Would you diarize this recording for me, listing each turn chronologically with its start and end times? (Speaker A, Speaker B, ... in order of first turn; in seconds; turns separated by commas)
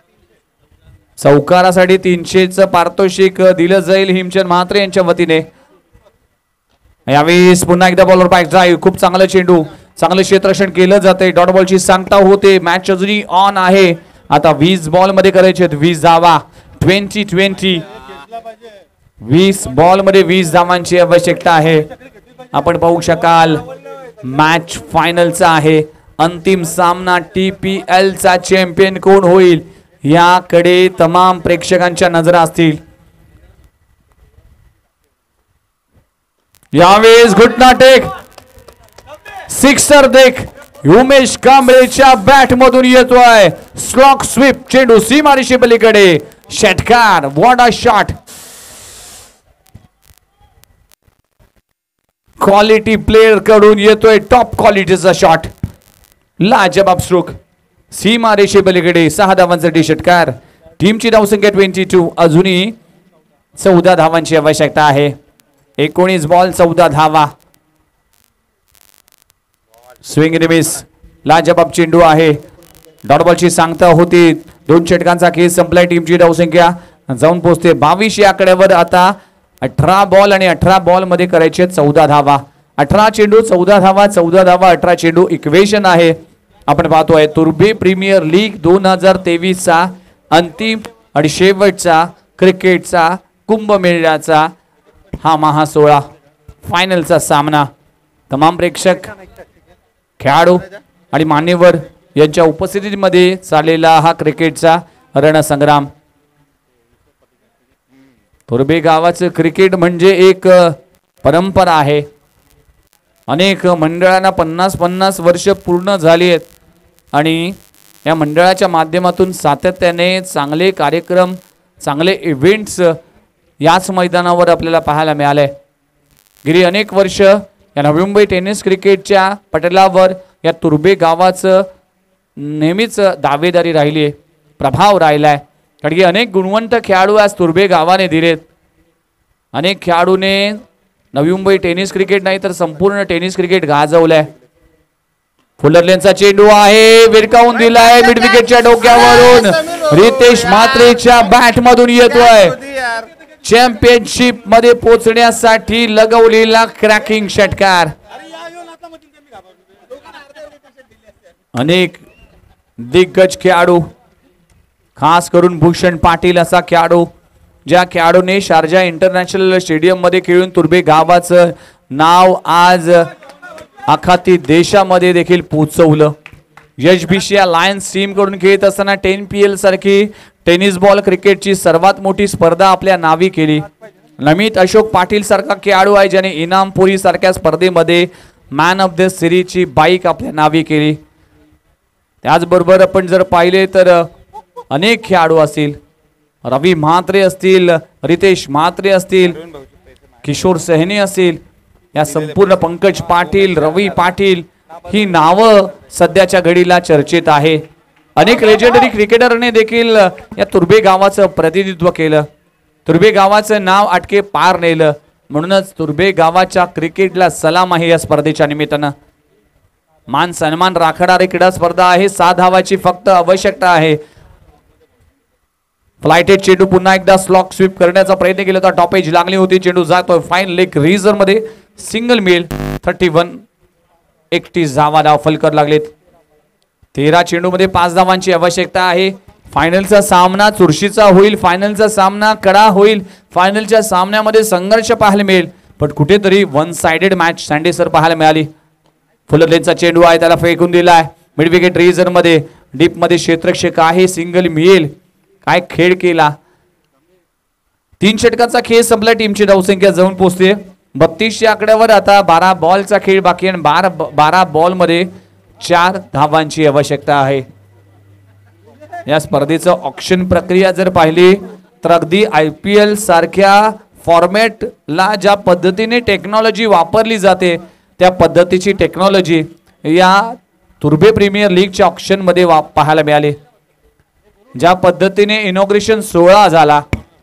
Speaker A: 1.2-5.4, Speaker A: 7.1-17.8, Speaker A: 19.2-21.9, Speaker A: 22.5-23.6, Speaker A: 24.2-32.8, Speaker A: 36.7-38.1, Speaker A: 39.5-48.1, Speaker A: 52.4-55.5, Speaker A: 56.4-57.4, Speaker A: 57.9-62.8, Speaker A: 63.5-65.1, Speaker A: 65.8-67.3, Speaker A: 70.0-72.4, Speaker A: 73.0-86.2, Speaker A: 86.7-94.5, Speaker A: 95.2-96.0, Speaker A: 96.6-97.7, Speaker A: 98.3-99.1, Speaker A: 100.2-105.9, Speaker A: 108.5-112.0, Speaker A: 113.3-116.5, Speaker A: 117.1-123.0, Speaker A: 123.6-125.5, Speaker A: 126.4-131.7, Speaker A: 132.4-138.4, Speaker A: 139.5-140.6, Speaker A: 141.1-144.3, Speaker A: 145.6-152.6, Speaker A: 153.4-157.9, Speaker A: 161.5-162.0, Speaker A: 162.8-163.8, Speaker A: 165.0-167.1, Speaker A: 167.7-173.1, Speaker A: 173.9-176.1, Speaker A: 176.8-183.7, Speaker A: 184.2-191.0, Speaker A: 192.2-194.1, Speaker A: 194.7-195.8, Speaker A: 196.4-199.4, Speaker A: 200.2-201.4, Speaker A: 201.9-207.6, Speaker A: 208.2-212.3, Speaker A: 212.8-218.9, Speaker A: 220.1-224.0, Speaker A: 226.0-233.4, Speaker A: 234.3-235.9, Speaker A: 236.9-248.5, Speaker A: 249.3-254.9, Speaker A: 255.4-256.4, Speaker A: 258.0-265.1, Speaker A: 265.6-267.4, Speaker A: 269.1-283.4, Speaker A: 284.6-286.8